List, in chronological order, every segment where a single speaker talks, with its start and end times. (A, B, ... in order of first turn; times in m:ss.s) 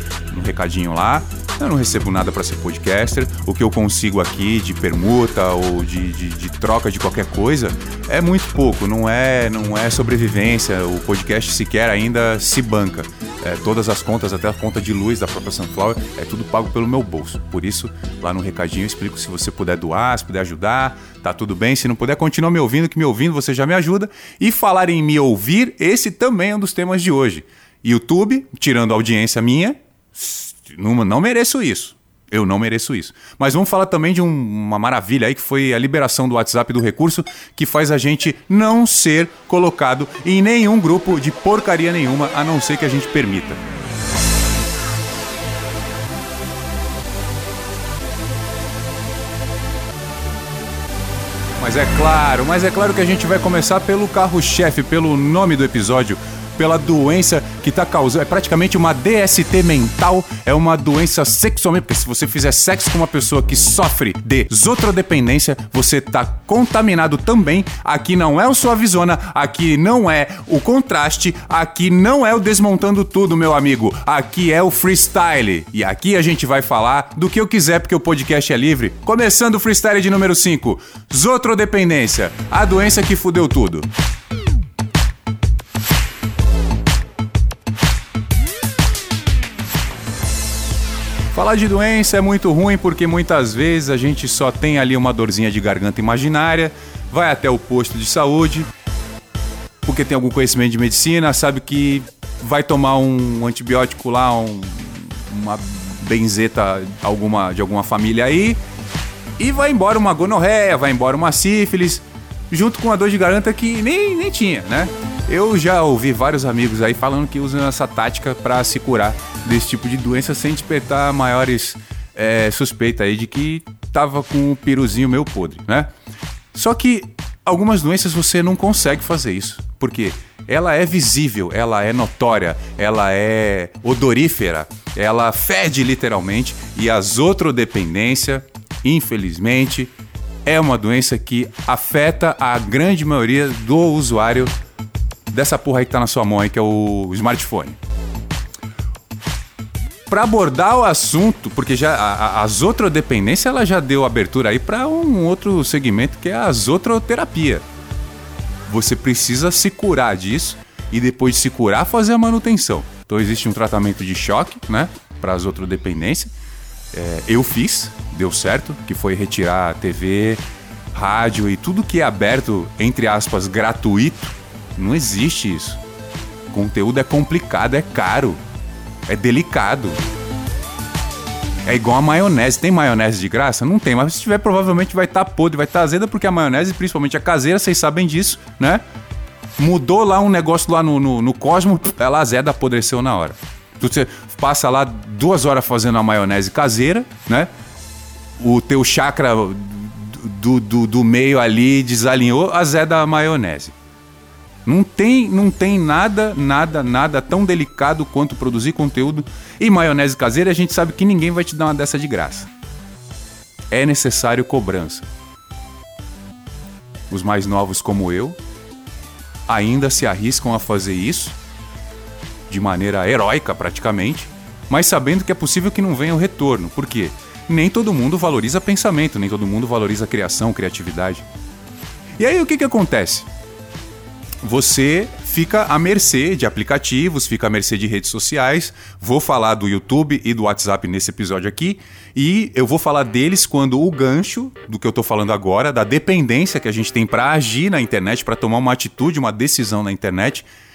0:00.3-0:43.6 A
0:51.6-1:23.9 A
1:31.3-1:38.7 A
1:39.8-1:48.6 A
1:49.4-2:05.9 A
2:06.5-2:19.9 A
2:20.4-2:24.5 A
2:25.3-2:27.8 A
2:30.1-2:37.6 A
2:38.7-2:46.3 A
2:46.9-2:50.4 A
2:50.9-2:55.8 A
2:56.5-2:58.4 A
2:59.1-3:00.0 A
3:01.6-3:08.8 A
3:09.6-3:17.5 A
3:18.4-3:23.7 A
3:24.6-3:32.5 A
3:33.7-3:35.1 A
3:37.1-3:38.4 A
3:39.5-3:41.4 A
3:42.5-3:51.2 A
3:52.2-3:53.3 A
3:54.4-4:10.4 A